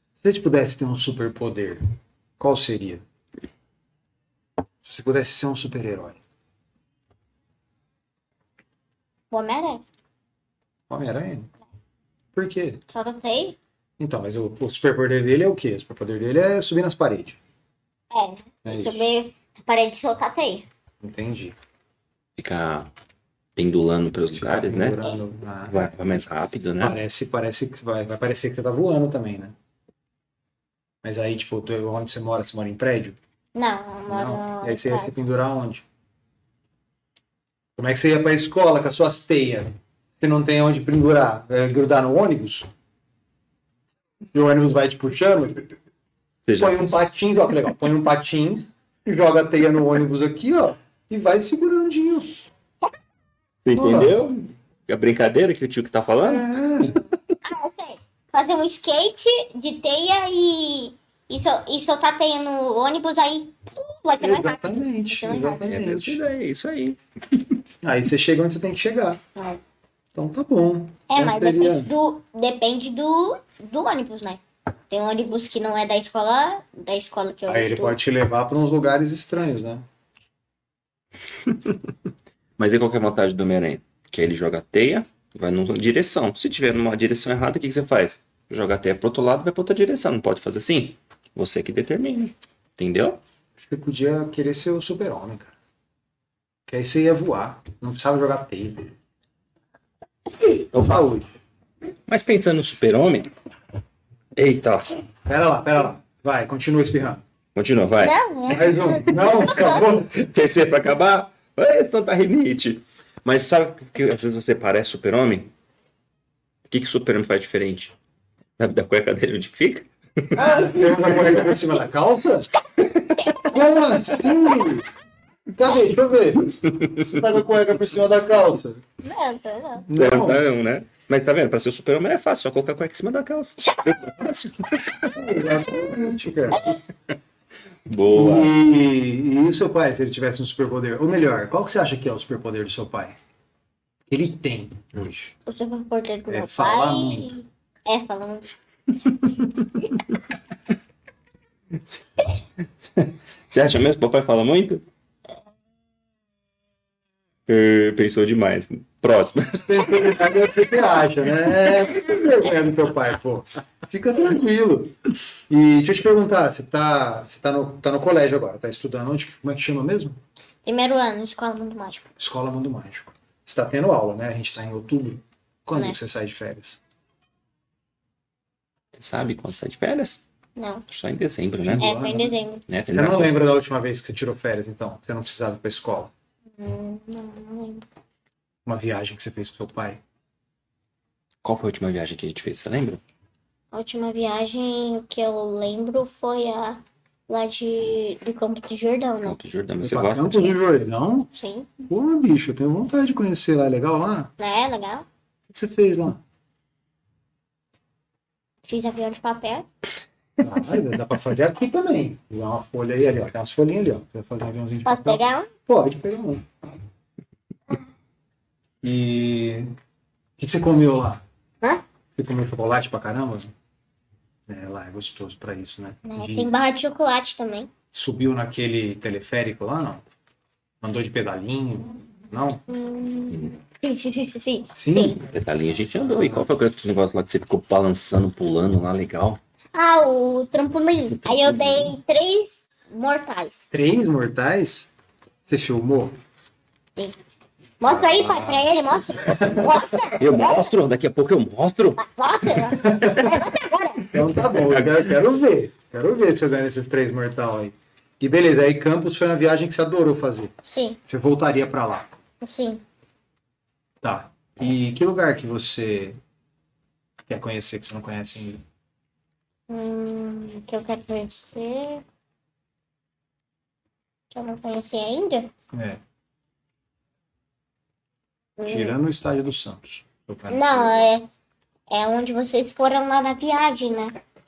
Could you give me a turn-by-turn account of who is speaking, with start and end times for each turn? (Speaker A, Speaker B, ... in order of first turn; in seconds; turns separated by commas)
Speaker A: 0.2-1.8, Speaker A: 2.4-3.0, Speaker A: 4.8-6.2, Speaker B: 9.3-9.8, Speaker A: 10.9-11.5, Speaker A: 12.3-12.8, Speaker B: 12.9-13.6, Speaker A: 14.0-17.4, Speaker B: 18.1-20.6, Speaker A: 18.6-19.0, Speaker A: 21.0-21.6, Speaker C: 22.4-22.9, Speaker C: 23.6-25.0, Speaker A: 24.3-25.9, Speaker C: 25.7-27.0, Speaker A: 26.8-29.5, Speaker A: 31.0-33.2, Speaker B: 33.5-35.1, Speaker A: 34.1-35.8, Speaker A: 37.8-42.7, Speaker A: 44.3-45.7, Speaker C: 46.5-47.0, Speaker A: 46.6-52.3, Speaker C: 53.6-56.5, Speaker A: 53.7-54.1, Speaker A: 56.2-57.0, Speaker B: 57.4-65.7, Speaker A: 64.2-66.2, Speaker C: 65.7-67.4, Speaker A: 67.8-69.2, Speaker A: 70.1-71.9, Speaker B: 71.1-78.0, Speaker A: 77.5-79.8, Speaker C: 82.6-93.2, Speaker A: 93.6-95.5, Speaker A: 96.7-98.9, Speaker A: 100.7-101.3, Speaker C: 100.7-101.0, Speaker C: 102.1-103.3, Speaker C: 104.3-104.9, Speaker A: 105.2-107.2, Speaker C: 107.5-108.1, Speaker B: 108.0-109.8, Speaker A: 108.5-110.2, Speaker C: 110.1-115.5, Speaker C: 116.7-117.9, Speaker C: 118.6-120.4, Speaker A: 120.3-122.5, Speaker B: 120.4-120.8, Speaker A: 123.3-124.9, Speaker A: 125.5-128.8, Speaker B: 129.0-129.9, Speaker A: 129.9-130.4, Speaker C: 129.9-135.2, Speaker B: 133.6-133.9, Speaker A: 135.1-136.7, Speaker C: 137.8-138.5, Speaker A: 138.1-143.2, Speaker A: 144.1-145.3, Speaker B: 145.4-148.5, Speaker A: 146.3-147.3, Speaker C: 152.9-154.8, Speaker C: 157.5-160.0, Speaker A: 159.7-170.2, Speaker B: 170.6-172.1, Speaker A: 172.2-176.8, Speaker C: 178.9-180.2, Speaker B: 180.6-180.8, Speaker C: 180.9-181.9, Speaker A: 181.6-182.3, Speaker B: 181.8-182.6, Speaker C: 182.7-183.4, Speaker A: 182.9-186.1, Speaker B: 186.6-187.8, Speaker A: 188.6-190.0, Speaker C: 191.4-193.0, Speaker B: 193.7-199.4, Speaker C: 199.2-200.6, Speaker A: 199.8-201.3, Speaker B: 201.3-201.7, Speaker A: 201.9-204.3, Speaker B: 204.4-205.1, Speaker A: 205.5-206.2, Speaker B: 208.7-209.7, Speaker A: 210.4-216.5, Speaker B: 214.8-215.5, Speaker A: 218.8-219.7, Speaker A: 220.4-221.2, Speaker A: 222.1-223.5, Speaker A: 224.5-226.5, Speaker B: 226.0-227.7, Speaker A: 227.9-230.0, Speaker A: 230.8-232.6, Speaker B: 232.7-235.2, Speaker A: 234.7-235.2, Speaker C: 235.2-239.4, Speaker A: 236.0-236.5, Speaker B: 239.7-243.6, Speaker C: 241.2-241.9, Speaker A: 243.7-244.9, Speaker A: 245.4-246.2, Speaker B: 247.8-250.6, Speaker A: 247.8-249.7, Speaker C: 250.1-252.0, Speaker B: 252.0-254.1, Speaker A: 252.8-253.4, Speaker A: 254.1-260.5, Speaker B: 260.6-261.0, Speaker A: 261.1-262.1, Speaker B: 262.4-262.8, Speaker A: 264.0-266.2, Speaker A: 267.2-268.6, Speaker B: 269.7-272.0, Speaker B: 274.3-275.5, Speaker A: 275.7-276.0, Speaker B: 278.6-279.0, Speaker A: 278.6-281.0, Speaker B: 280.5-281.3, Speaker B: 281.9-284.2